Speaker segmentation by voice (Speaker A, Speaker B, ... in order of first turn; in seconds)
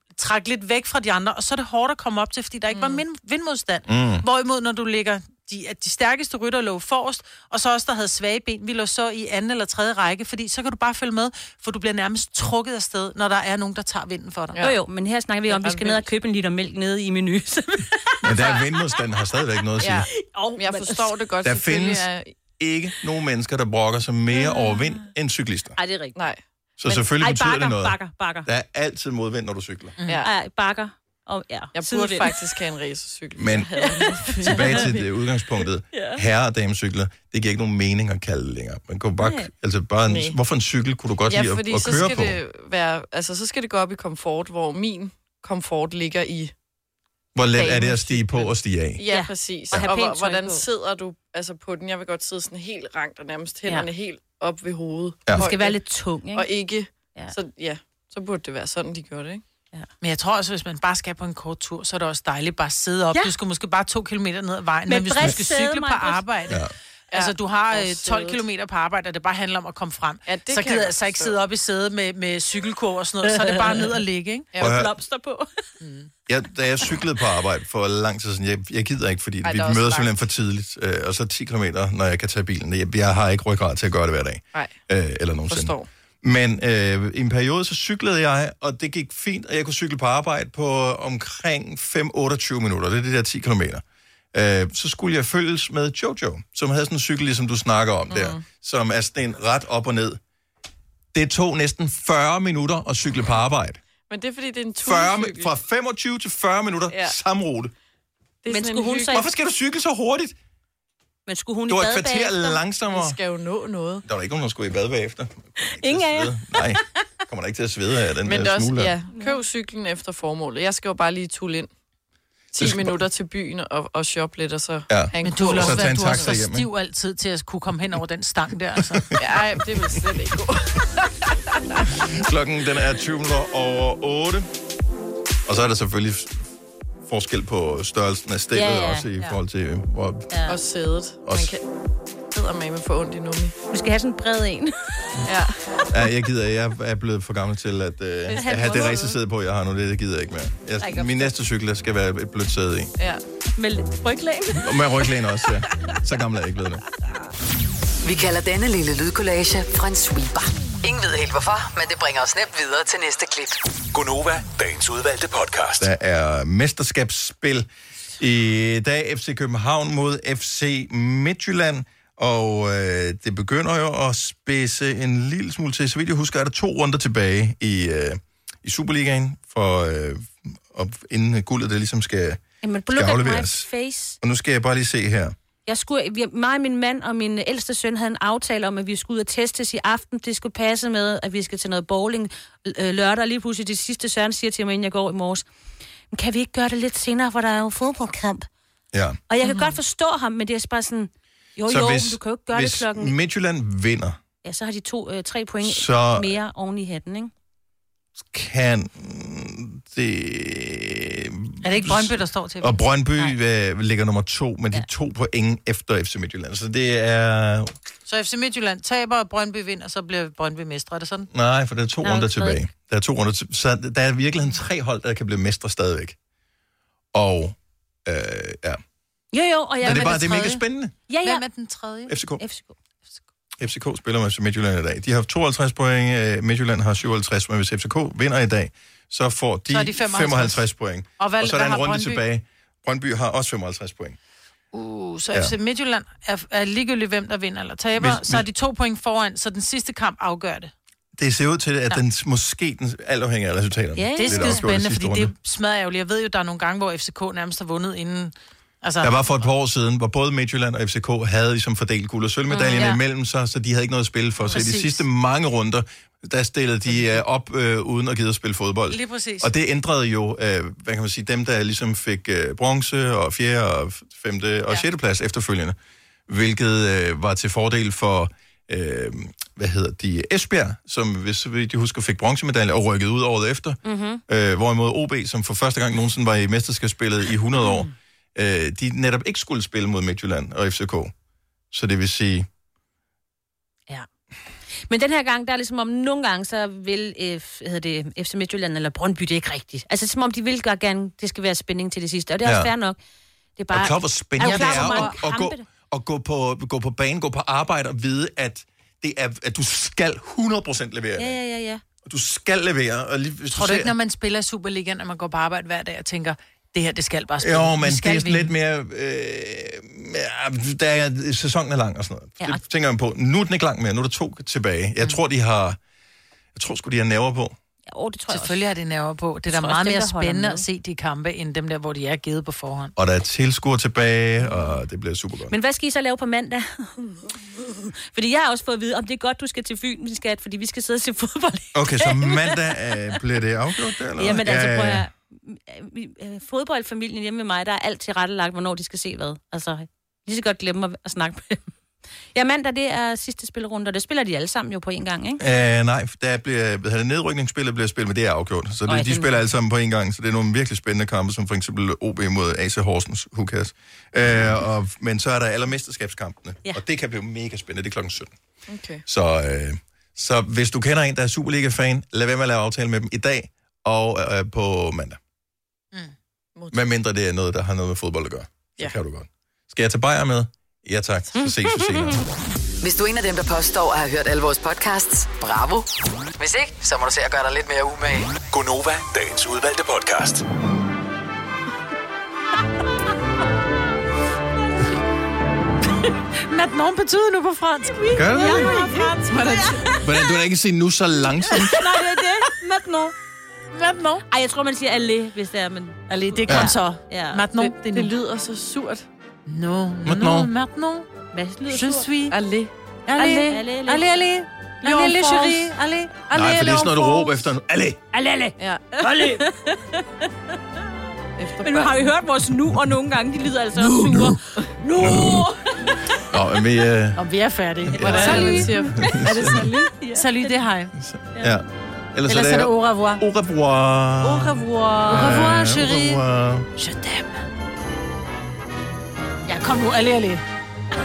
Speaker A: 0.2-14.6, 30.0-30.2, 60.0-66.6, 67.1-74.5, 125.2-129.1, 211.6-212.8, 218.1-221.3, 229.8-230.6, 231.2-232.1, 239.7-240.7, 241.2-242.2, 244.7-250.7, 254.2-259.2, 264.5-265.1, 268.9-269.5, 304.4-305.2, 313.5-318.5, 328.3-332.9, 396.4-399.9, 402.0-402.6, 403.7-404.2, 406.1-408.1, 409.5-411.1, 411.7-412.4, 413.1-417.3, 427.2-428.7, 429.4-430.9, 432.3-433.2, 434.3-436.2, 436.8-437.5, 439.5-440.4
Speaker B: 2.7-3.0, 14.5-14.8, 15.5-16.1, 18.4-18.6, 19.8-22.3, 26.1-27.1, 31.8-35.0, 40.1-40.4, 41.3-46.5, 47.5-55.8, 56.3-59.4, 67.1-68.4, 70.3-71.4, 79.4-80.1, 85.5-85.9, 98.1-98.4, 104.1-105.5, 106.9-107.2, 108.4-109.2, 112.9-114.0, 118.2-121.7, 122.5-126.3, 129.2-132.1, 140.5-141.7, 142.3-143.6, 145.2-145.9, 148.3-149.1, 199.4-199.7, 368.7-369.0, 376.6-376.9, 399.3-399.9, 407.6-409.1, 412.3-412.7, 414.8-415.6, 418.6-418.9, 421.4-422.1, 428.0-429.2
Speaker C: 3.9-4.3, 18.2-20.1, 21.4-25.8, 26.8-29.9, 33.4-33.7, 34.4-42.4, 47.4-49.0, 74.6-74.9, 76.3-93.8, 94.3-100.2, 101.1-103.8, 104.8-107.7, 109.1-110.4, 111.7-113.2, 114.1-119.0, 122.6-123.0, 124.9-126.7, 131.9-134.5, 135.5-136.4, 137.1-140.3, 141.2-141.6, 145.9-152.9, 154.5-156.8, 165.8-167.7, 168.2-182.4, 182.9-183.7, 184.2-185.3, 198.9-199.2, 201.7-204.2, 205.6-206.4, 208.3-217.7, 221.3-226.2, 227.1-228.8, 229.8-230.9, 232.1-232.4, 233.6-244.2, 248.0-248.4, 251.2-255.3, 259.0-275.8, 276.3-291.1, 291.7-292.5, 302.4-302.7, 303.7-311.4, 312.1-313.9, 317.4-325.8, 326.6-327.6, 333.0-335.5, 341.7-345.1, 355.4-368.3, 369.1-375.2, 376.7-382.2, 398.1-398.7, 400.0-402.0, 406.5-406.7, 410.1-410.5, 416.3-418.0, 423.8-424.4, 424.9-425.5, 426.3-427.2, 427.8-429.7, 431.0-436.7
Speaker D: 14.6-19.0, 19.6-21.2, 24.4-25.0, 25.8-26.2, 27.2-28.5, 30.2-32.5, 33.7-34.9, 35.9-36.2, 39.2-39.5, 49.1-50.7, 55.3-56.5, 64.9-66.2, 73.2-73.9, 74.6-75.5, 108.5-109.3, 111.3-112.6, 115.6-116.6, 138.5-139.1, 140.3-140.6, 143.7-145.2, 148.3-149.2, 153.6-156.0, 182.6-184.2, 185.7-195.4, 196.1-198.5, 199.3-203.1, 204.4-207.3, 222.0-222.6, 229.3-231.4, 232.4-232.8, 254.0-254.6, 262.5-263.0, 283.9-284.2, 294.9-303.0, 303.6-305.6, 311.2-311.8, 327.9-328.6, 329.5-330.6, 335.5-337.2, 337.8-343.2, 344.2-351.7, 352.4-355.4, 358.9-359.4, 381.7-382.1, 398.3-399.1, 399.8-400.1, 401.5-403.1, 404.3-407.5, 411.3-412.1, 413.2-414.1, 418.1-420.3, 421.6-426.2, 427.9-430.7, 434.4-435.5
Speaker E: 158.0-163.6, 382.8-388.5
Speaker F: 163.9-165.9, 388.5-390.4